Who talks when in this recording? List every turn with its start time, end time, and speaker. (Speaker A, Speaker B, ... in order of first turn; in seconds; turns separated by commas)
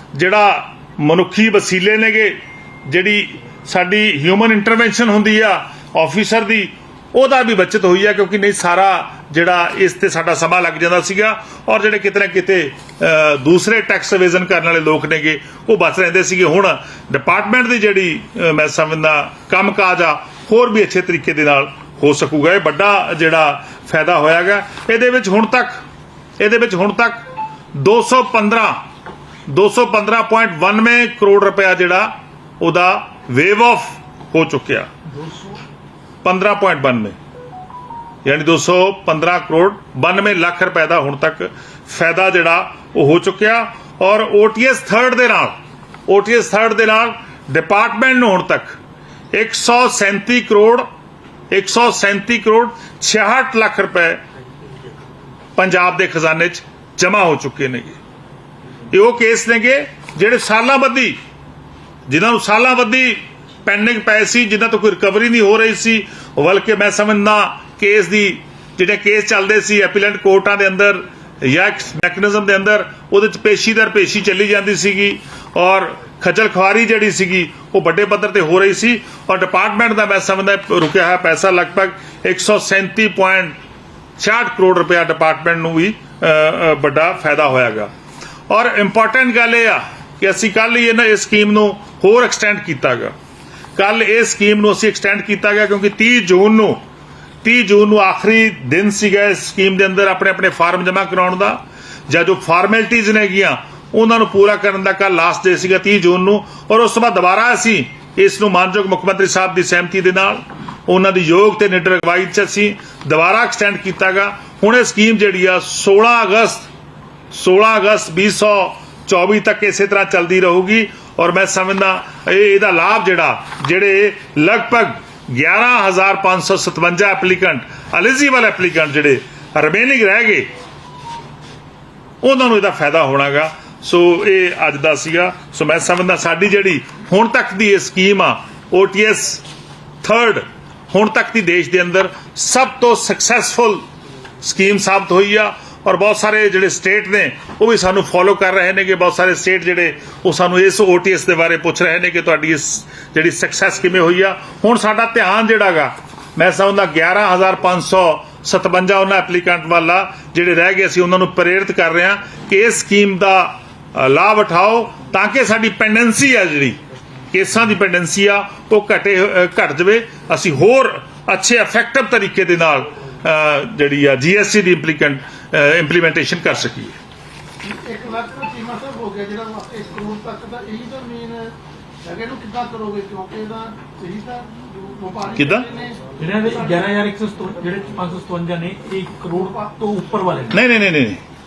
Speaker A: 0.1-25.8, Speaker A: 26.4-28.8, Speaker A: 29.5-34.9, Speaker B: 35.1-35.6, Speaker A: 36.2-37.1, Speaker A: 38.2-45.5, Speaker A: 46.1-48.8, Speaker A: 49.3-50.9, Speaker A: 51.5-54.2, Speaker A: 55.5-58.0, Speaker A: 58.9-61.2, Speaker A: 62.1-83.5, Speaker A: 84.2-87.9, Speaker A: 88.5-93.1, Speaker A: 93.8-96.8, Speaker A: 97.4-116.7, Speaker A: 117.3-130.5, Speaker A: 132.2-139.4, Speaker A: 140.0-143.8, Speaker A: 144.4-166.8, Speaker A: 167.3-177.0, Speaker C: 177.6-187.0, Speaker A: 185.3-185.7, Speaker B: 186.2-190.6, Speaker C: 189.4-189.7, Speaker A: 190.5-191.2